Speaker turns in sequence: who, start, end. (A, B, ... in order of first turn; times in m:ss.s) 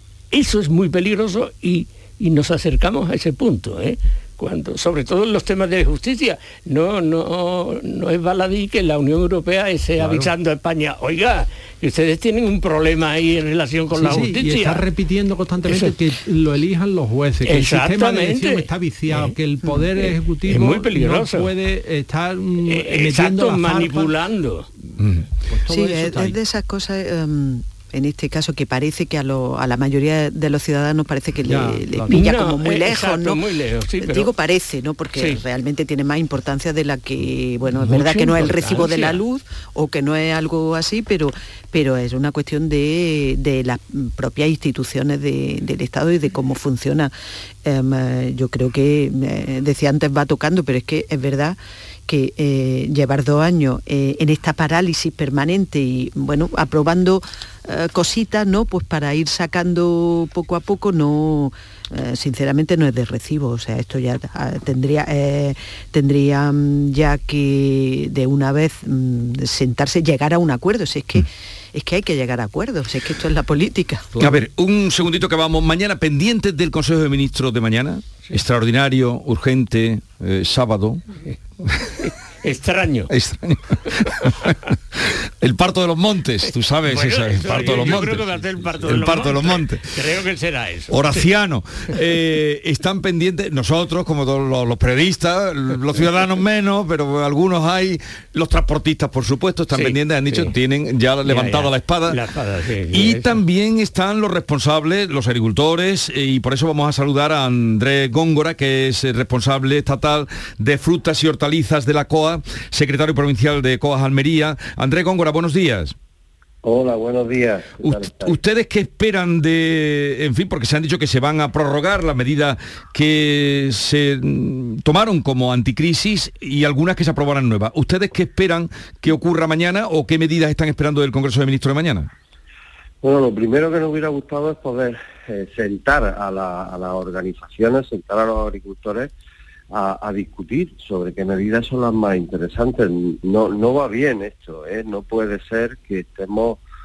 0:00.3-0:14.8 A
0:10.0-0:10.3 B
0:13.9-0:24.2 B
0:15.7-0:15.9 A
0:17.4-0:19.3 A
0:20.0-0:21.5 A
0:22.6-0:24.7 A
0:24.8-0:26.4 B
0:25.0-0:25.2 C
0:25.7-0:33.4 D
0:31.4-0:32.2 B
0:32.1-0:34.3 A
0:34.0-0:47.1 D
0:35.1-0:35.4 A
0:37.8-0:39.2 A
0:47.6-1:14.1 D
1:14.1-1:14.4 B
1:14.2-1:21.0 C
1:22.4-1:23.1 A
1:23.1-1:30.0 C
1:26.8-1:31.2 A
1:27.6-1:28.0 B
1:30.9-1:42.2 C
1:39.7-1:40.5 A
1:41.2-1:43.4 A
1:42.9-1:55.9 C
1:56.6-1:58.4 E
1:57.8-2:12.1 C
2:13.0-2:19.1 E
2:19.7-2:26.6 E